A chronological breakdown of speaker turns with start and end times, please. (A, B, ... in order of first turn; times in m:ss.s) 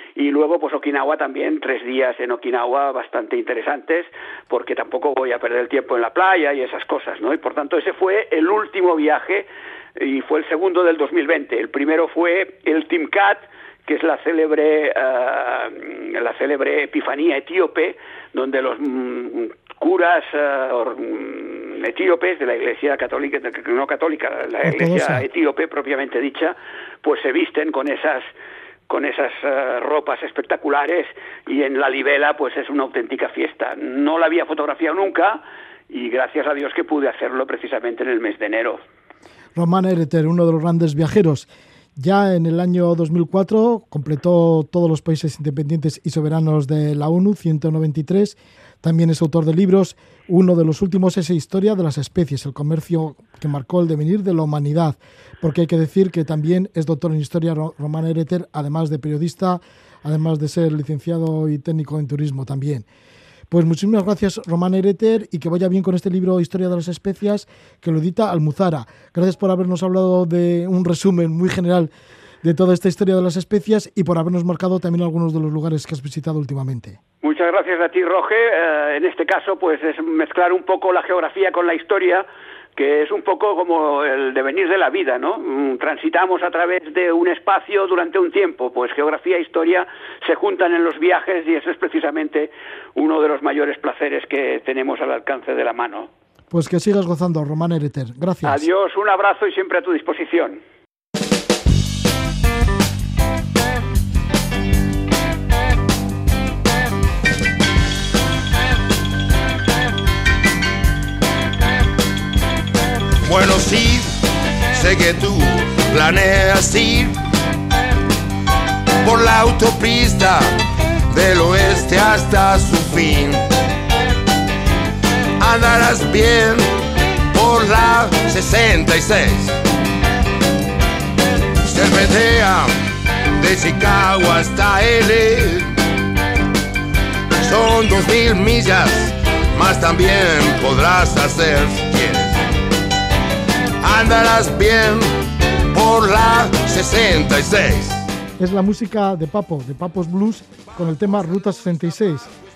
0:00.2-0:28.3 A
0:24.6-0:25.2 B
0:28.9-0:38.8 A
0:39.6-1:02.8 B
1:03.5-1:11.9 B
1:12.4-1:17.0 B
1:17.2-1:36.1 A
1:36.5-1:38.6 B
1:38.4-1:40.6 A
1:53.3-1:57.2 C
1:59.0-2:00.6 C
2:01.1-2:03.4 C
2:05.4-2:06.7 C
2:07.3-2:09.6 C
2:11.6-2:12.7 C
2:13.3-2:15.8 C
2:17.4-2:22.4 C
2:23.8-2:28.0 C
2:28.4-2:32.3 B